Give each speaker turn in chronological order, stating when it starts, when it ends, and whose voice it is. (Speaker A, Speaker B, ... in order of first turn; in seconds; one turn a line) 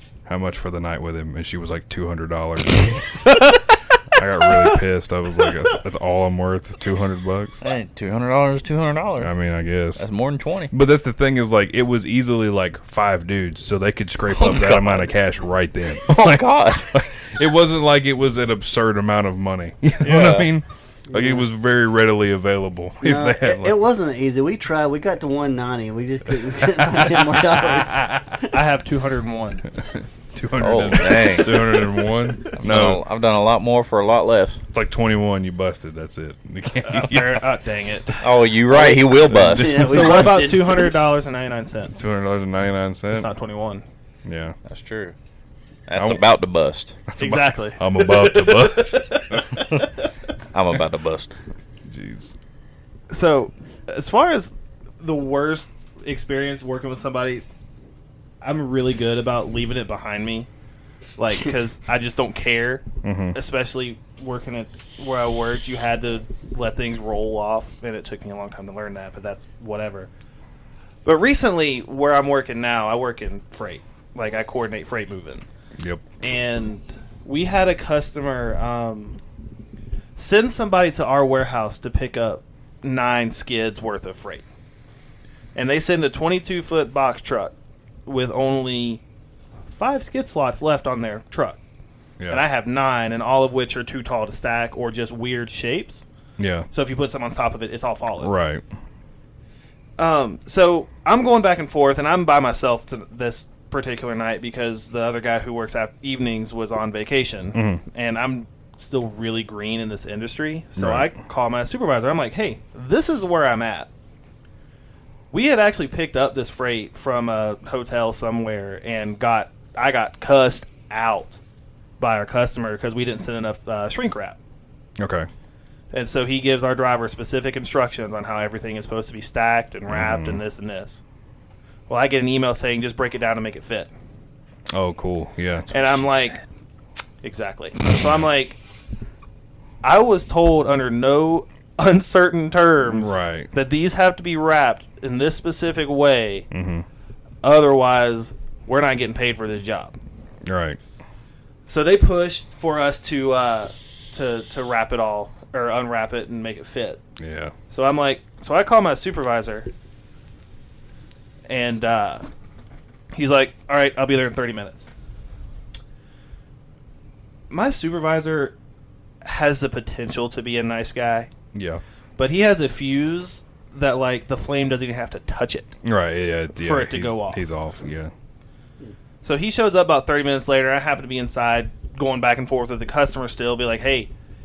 Speaker A: 0.3-3.3
Speaker B: 3.2-3.7
Speaker A: 4.1-7.6
Speaker C: 7.6-9.3
Speaker A: 9.2-10.0
Speaker C: 9.9-10.7
Speaker A: 10.7-23.8
Speaker C: 14.3-15.1
Speaker C: 16.1-17.1
Speaker C: 20.0-20.5
Speaker D: 21.1-21.4
Speaker D: 23.0-28.5
Speaker A: 26.8-28.3
Speaker B: 28.5-29.7
Speaker A: 29.8-33.0
Speaker C: 30.6-31.8
Speaker C: 32.5-34.6
Speaker A: 34.7-37.4
Speaker B: 36.8-38.3
Speaker C: 38.2-40.4
Speaker D: 38.7-41.0
Speaker A: 39.3-40.0
Speaker B: 39.6-42.0
Speaker A: 41.9-43.3
Speaker B: 43.1-43.8
Speaker A: 44.2-44.5
Speaker C: 44.6-45.1
Speaker C: 45.9-46.9
Speaker A: 46.0-46.3
Speaker A: 47.1-49.7
Speaker B: 47.2-49.9
Speaker C: 50.5-51.3
Speaker A: 51.9-52.4
Speaker B: 53.1-57.4
Speaker B: 58.4-60.5
Speaker B: 61.2-70.1
Speaker A: 63.0-63.4
Speaker B: 71.0-75.5
Speaker A: 75.8-76.0
Speaker B: 76.2-79.2
Speaker B: 80.2-84.4
Speaker B: 85.5-87.5
Speaker B: 88.0-89.0
Speaker B: 89.7-91.6
Speaker B: 92.3-96.0
Speaker A: 96.4-96.7
Speaker B: 96.7-98.3
Speaker A: 98.2-98.6
Speaker B: 100.0-113.9
Speaker A: 107.5-107.8
Speaker A: 110.8-111.1
Speaker B: 115.3-121.4
Speaker B: 122.0-124.4
Speaker A: 125.0-125.3
Speaker B: 125.9-131.0
Speaker A: 129.9-130.4
Speaker B: 131.9-133.9
Speaker A: 134.7-135.7
Speaker B: 135.7-136.4
Speaker B: 137.2-138.6
Speaker A: 137.9-138.1
Speaker B: 139.8-146.5
Speaker A: 142.8-143.5
Speaker A: 146.5-146.8
Speaker B: 147.4-149.9
Speaker A: 150.4-150.8
Speaker B: 151.7-157.0
Speaker A: 157.2-157.5
Speaker B: 157.7-159.7
Speaker B: 161.5-162.3
Speaker B: 163.1-164.9
Speaker B: 167.5-168.6
Speaker B: 169.2-171.3
Speaker A: 171.5-171.8
Speaker B: 172.2-175.7
Speaker A: 175.8-178.1
Speaker B: 176.5-177.4
Speaker B: 179.2-184.1